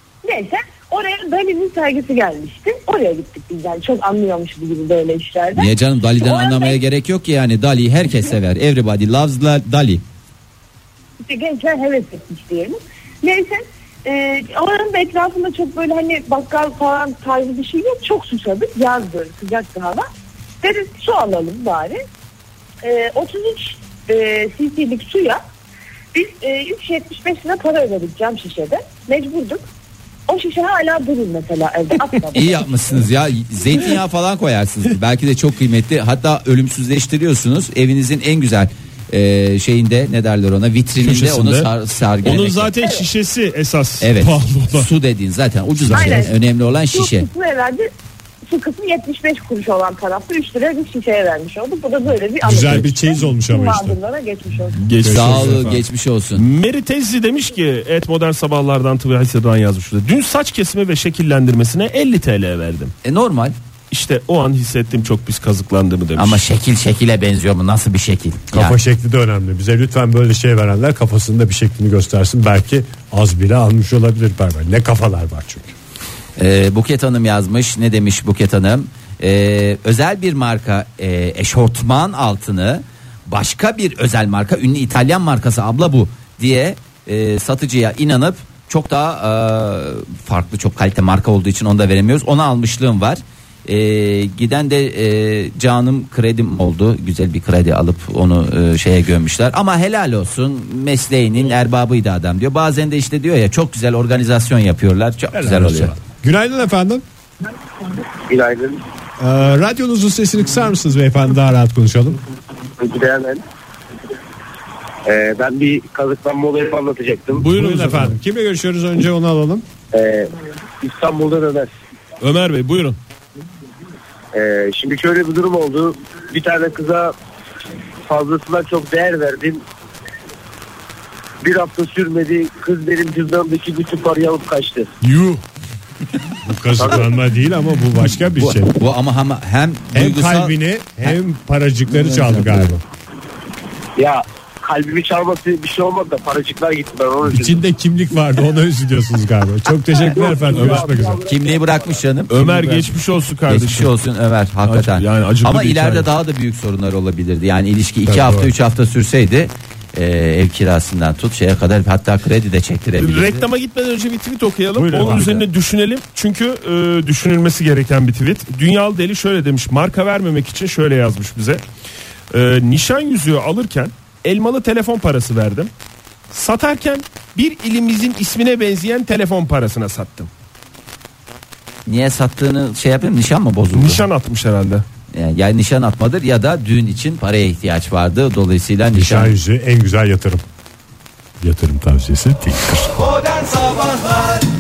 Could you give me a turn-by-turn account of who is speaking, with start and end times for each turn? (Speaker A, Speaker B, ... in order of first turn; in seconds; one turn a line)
Speaker A: 0.2-6.8
Speaker B: 5.5-10.0
Speaker A: 11.2-20.1
Speaker A: 20.6-22.0
Speaker A: 22.8-25.4
Speaker A: 26.1-29.7
Speaker A: 30.3-33.0
Speaker B: 32.3-42.8
Speaker C: 41.0-41.7
Speaker C: 42.2-44.9
Speaker A: 42.7-43.1
Speaker B: 44.0-47.3
Speaker A: 45.9-46.4
Speaker A: 46.9-47.9
Speaker A: 48.5-54.8
Speaker D: 52.4-54.0
Speaker C: 54.8-55.8
Speaker D: 55.0-55.7
Speaker B: 55.1-56.5
Speaker C: 56.3-62.9
Speaker B: 63.0-63.5
Speaker C: 63.9-66.4
Speaker B: 66.2-68.8
Speaker D: 68.5-75.7
Speaker B: 76.4-105.9
Speaker D: 105.3-107.0
Speaker E: 108.3-108.8
Speaker D: 109.2-112.2
Speaker E: 112.8-113.4
Speaker E: 115.0-117.4
Speaker C: 117.3-118.1
Speaker D: 117.4-119.6
Speaker E: 119.9-121.7
Speaker C: 122.2-123.0
Speaker E: 124.3-127.2
Speaker E: 128.1-129.6
Speaker E: 131.4-134.9
Speaker C: 135.1-135.3
Speaker D: 136.4-138.7
Speaker B: 138.3-141.1
Speaker D: 139.9-142.8
Speaker B: 141.9-142.7
Speaker E: 143.9-147.6
Speaker D: 147.3-151.2
Speaker E: 150.0-152.2
Speaker C: 150.5-150.9
Speaker B: 151.2-152.9
Speaker C: 152.3-153.9
Speaker B: 153.5-163.4
Speaker C: 154.6-156.1
Speaker D: 158.0-158.5
Speaker C: 163.0-171.6
Speaker D: 164.7-165.4
Speaker C: 172.3-175.7
Speaker C: 176.3-180.3
Speaker B: 181.8-184.1
Speaker C: 183.7-184.8
Speaker B: 185.1-189.3
Speaker D: 188.9-190.4
Speaker D: 191.4-193.2
Speaker D: 193.8-194.2